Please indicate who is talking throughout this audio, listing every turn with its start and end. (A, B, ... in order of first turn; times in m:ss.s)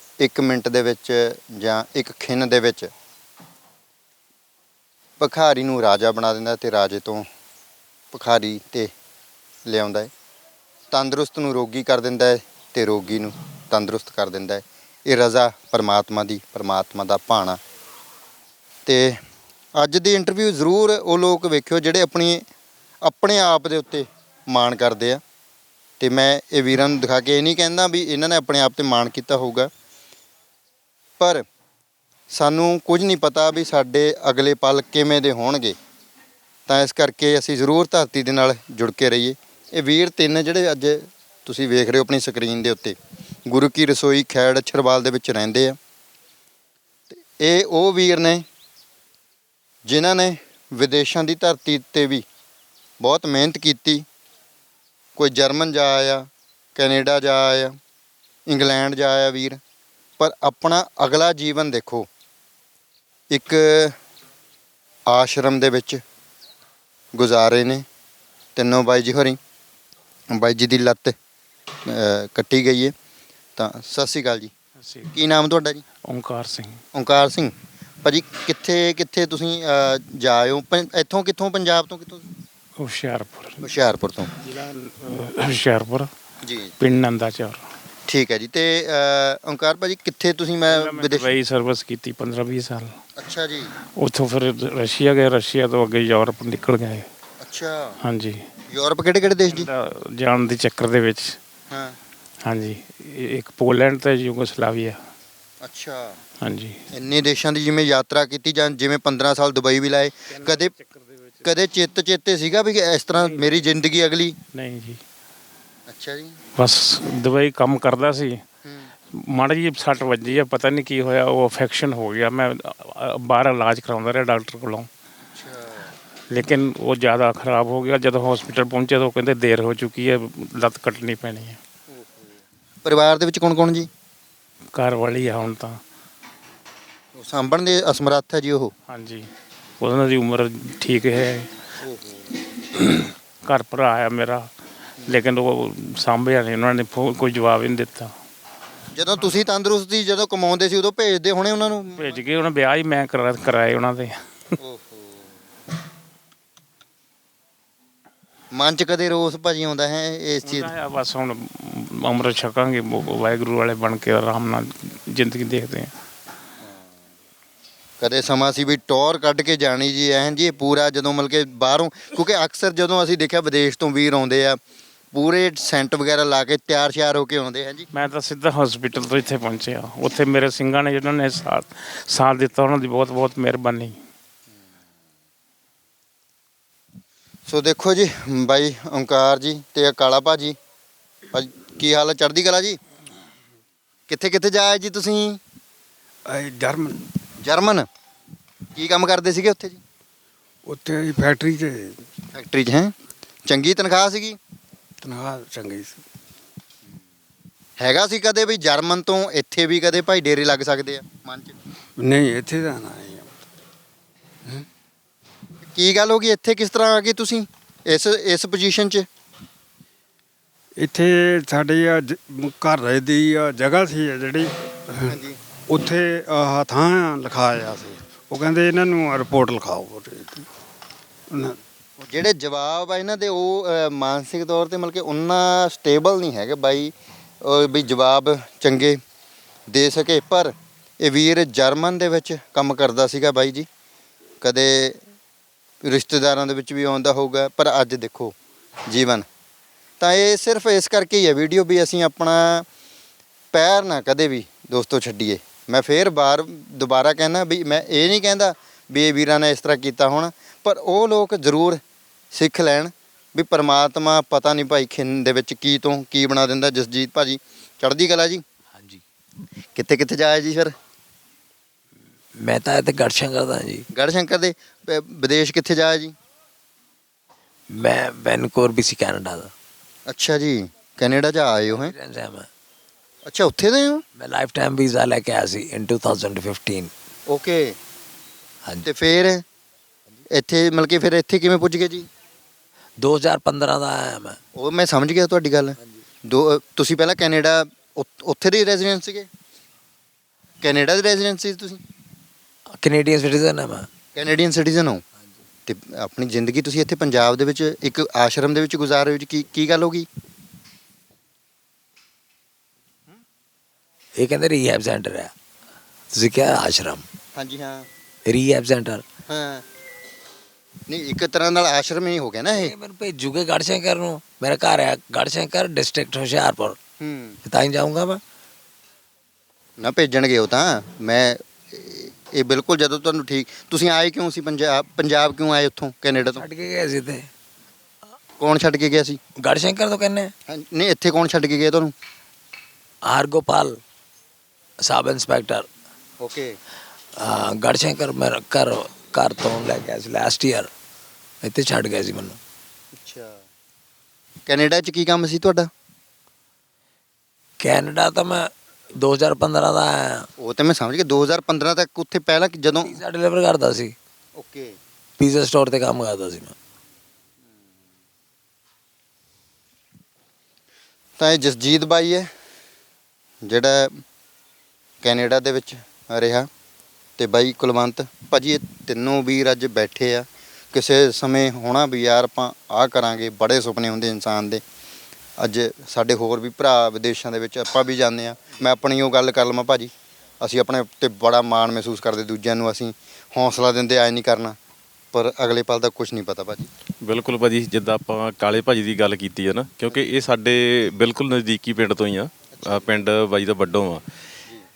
0:00.2-0:02.9 A
0:05.2-0:07.2 A
0:08.1-0:08.9 A
0:09.6-0:10.1 A
0:10.9-0:17.6 A
0:18.8-0:19.2 A
0:19.8-0:22.4 A
0:23.0-0:25.2 A
0:26.0-0:29.7 A
0:31.2-0:31.4 A
0:32.3-0:35.8 A
0:36.7-0:43.0 A
0:43.5-0:45.8 A
0:47.4-0:48.4 A
0:49.8-0:52.2 A
0:53.0-0:54.0 A
0:55.2-0:56.2 A
0:56.8-0:57.7 A
0:58.5-0:59.6 A
1:00.2-1:02.1 A
1:03.3-1:03.9 A
1:05.1-1:06.0 A
1:07.1-1:07.8 A
1:08.6-1:09.4 A
1:10.3-1:11.1 A
1:11.8-1:12.9 A
1:13.6-1:14.5 A
1:14.8-1:15.2 B
1:15.1-1:15.8 A
1:16.0-1:16.8 B
1:16.9-1:17.5 A
1:18.0-1:22.2 A
1:22.8-1:23.6 B
1:23.6-1:24.3 A
1:24.3-1:26.1 B
1:26.4-1:26.7 A
1:26.8-1:27.6 B
1:28.1-1:31.3 A
1:30.6-1:32.9 B
1:33.2-1:33.7 A
1:34.0-1:37.0 B
1:37.4-1:38.0 A
1:38.0-1:38.5 B
1:38.7-1:39.7 A
1:39.5-1:41.4 B
1:41.7-1:42.0 A
1:42.4-1:45.0 B
1:45.6-1:46.2 A
1:46.4-1:46.8 B
1:46.9-1:50.7 A
1:50.3-1:51.4 B
1:51.4-1:54.4 A
1:53.1-1:53.7 B
1:54.5-1:55.0 B
1:55.9-1:56.4 A
1:56.6-1:58.4 B
1:58.6-1:58.9 A
1:59.1-2:04.9 B
2:05.3-2:05.9 A
2:06.3-2:11.6 B
2:12.8-2:13.9 A
2:14.7-2:15.8 B
2:17.1-2:18.7 A
2:18.9-2:19.3 B
2:19.8-2:21.5 B
2:21.8-2:22.3 A
2:22.7-2:24.5 B
2:25.0-2:28.1 B
2:28.9-2:32.1 A
2:32.0-2:34.6 B
2:34.6-2:35.3 A
2:38.5-2:40.7 A
2:40.4-2:45.9 B
2:48.0-2:54.6 A
2:55.1-2:57.9 A
2:57.9-3:04.0 B
3:07.5-3:10.6 A
3:11.3-3:12.8 A
3:14.1-3:15.4 A
3:16.3-3:17.1 C
3:17.4-3:17.9 A
3:18.8-3:19.8 A
3:20.6-3:22.0 C
3:22.3-3:22.9 A
3:23.4-3:24.4 A
3:25.0-3:26.0 C
3:27.8-3:31.5 A
3:32.0-3:33.3 C
3:35.7-3:39.0 A
3:40.8-3:50.5 C
3:45.0-3:45.4 A
3:51.3-3:51.6 C
3:52.1-3:59.0 A
3:59.7-4:03.7 A
4:04.4-4:05.0 A
4:05.8-4:08.3 A
4:08.9-4:09.2 A
4:10.0-4:12.6 A
4:13.5-4:21.8 A
4:22.3-4:28.4 A
4:28.8-4:29.0 D
4:29.8-4:30.7 A
4:32.4-4:33.9 D
4:33.9-4:36.1 A
4:37.7-4:39.5 D
4:40.1-4:41.9 A
4:41.7-4:42.5 D
4:43.2-4:44.0 A
4:44.2-4:46.9 D
4:47.3-4:47.8 A
4:48.8-4:49.4 A
4:50.3-4:52.1 A
4:53.0-4:54.4 D
4:54.6-4:59.3 A
5:00.6-5:01.8 A
5:02.8-5:03.9 D
5:04.1-5:05.0 A
5:05.7-5:10.1 A
5:14.2-5:15.3 D
5:16.1-5:17.0 D
5:17.4-5:17.9 A
5:18.2-5:19.0 D
5:19.3-5:19.6 A
5:20.9-5:22.7 A
5:22.5-5:26.8 D
5:27.0-5:27.4 A
5:27.4-5:28.2 D
5:29.8-5:36.4 A
5:36.3-5:37.3 D
5:38.4-5:39.2 A
5:39.4-5:40.3 D
5:40.5-5:41.9 A
5:43.0-5:43.8 D
5:44.8-5:45.7 D
5:46.2-5:46.6 A
5:47.2-5:50.7 D
5:51.4-5:52.4 D
5:53.0-5:53.4 A
5:54.4-5:55.7 A
5:57.6-6:00.3 D
6:00.4-6:03.0 A
6:02.8-6:04.0 D
6:04.4-6:04.8 A
6:05.2-6:06.5 D
6:11.2-6:12.3 A
6:13.4-6:14.0 A
6:15.0-6:16.5 A
6:17.2-6:24.6 A
6:25.4-6:34.6 A
6:35.1-6:36.7 A
6:37.0-6:44.0 E
6:42.6-6:42.8 A